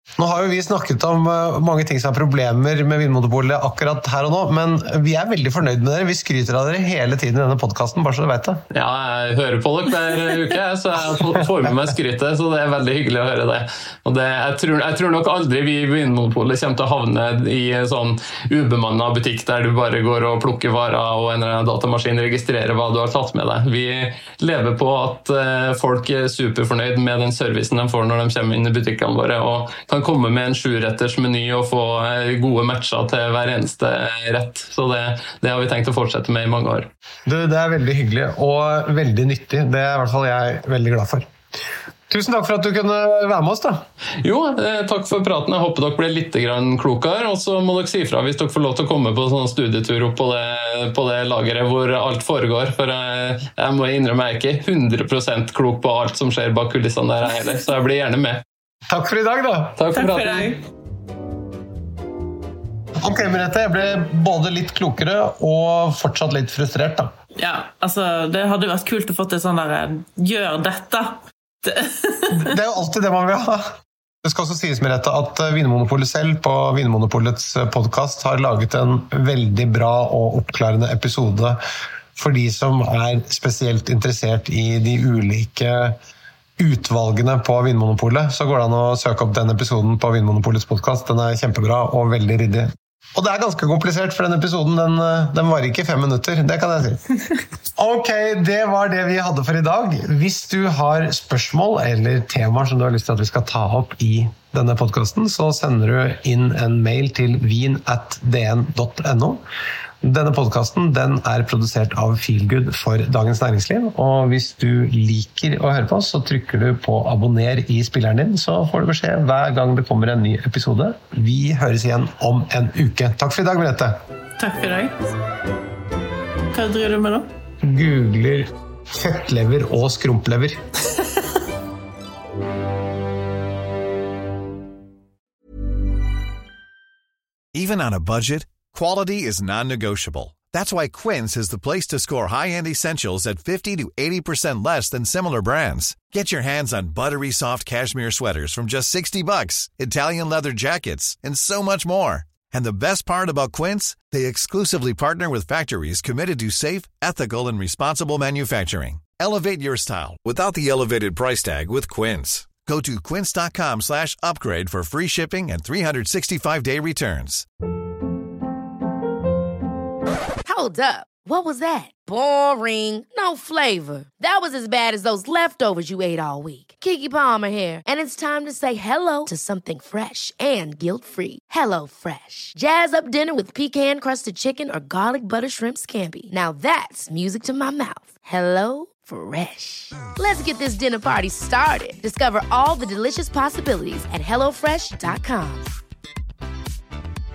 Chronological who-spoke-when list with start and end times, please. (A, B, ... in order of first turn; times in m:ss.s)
0:00.2-0:08.6 A
0:08.7-0:36.9 B
0:37.3-0:41.3 A
0:42.1-0:43.8 A
0:44.2-0:58.4 B
0:58.9-0:59.8 A
0:59.8-1:00.6 B
1:00.0-1:00.6 C
1:03.0-1:07.1 A
1:07.4-1:12.5 C
1:12.3-1:21.6 A
1:22.2-1:26.0 A
1:26.6-1:37.0 A
1:37.8-1:49.4 A
1:50.0-2:04.0 A
2:04.4-2:04.9 C
2:06.5-2:07.3 C
2:07.6-2:10.6 A
2:17.5-2:47.5 D
2:50.5-3:15.7 E